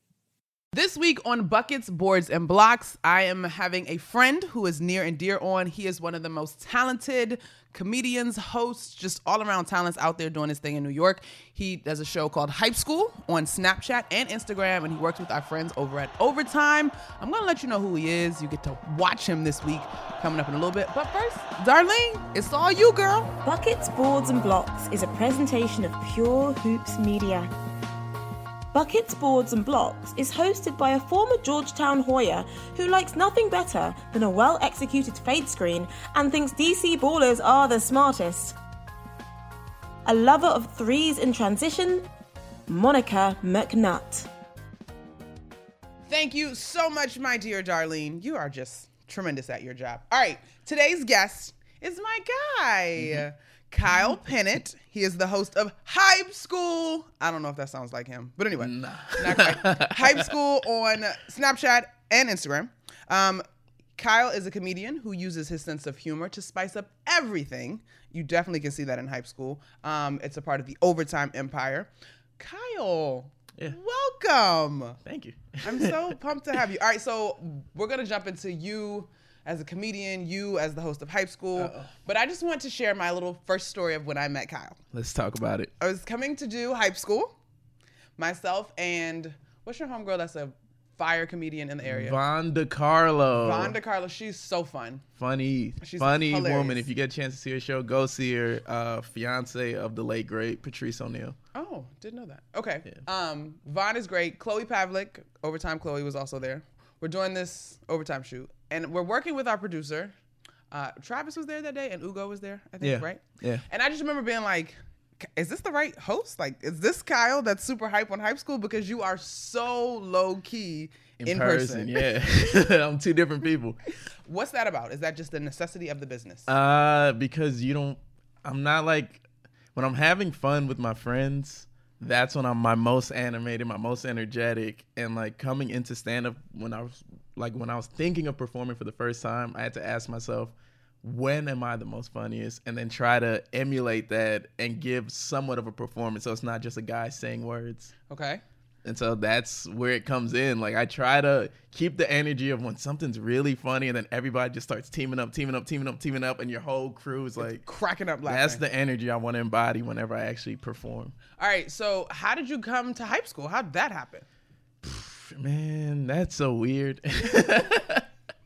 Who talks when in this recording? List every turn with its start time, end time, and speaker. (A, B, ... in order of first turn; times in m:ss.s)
0:00.7-0:23.3 A
0:23.4-0:27.5 B
0:28.7-0:38.6 B
0:40.0-0:42.0 B
0:42.7-0:44.3 B
0:46.0-1:03.4 A
0:53.0-0:53.2 C
0:58.6-1:00.3 C
1:04.0-1:15.0 A
1:15.0-1:16.2 C
1:15.6-1:24.8 A
1:21.6-1:21.9 C
1:24.9-1:25.7 C
1:25.8-1:27.3 A
1:28.2-1:32.2 A
1:31.8-1:33.8 C
1:33.3-1:35.0 A
1:35.2-1:41.4 C
1:35.8-1:36.9 A
1:41.5-1:50.1 A
1:50.7-2:02.0 A
1:52.8-1:53.6 C
2:01.2-2:03.8 C
2:04.2-2:06.5 A
2:06.5-2:27.9 C
2:28.1-2:28.4 A
2:28.8-2:37.6 C
2:37.4-2:38.6 A
2:38.2-2:41.1 C
2:41.4-2:44.2 A
2:44.8-2:48.1 C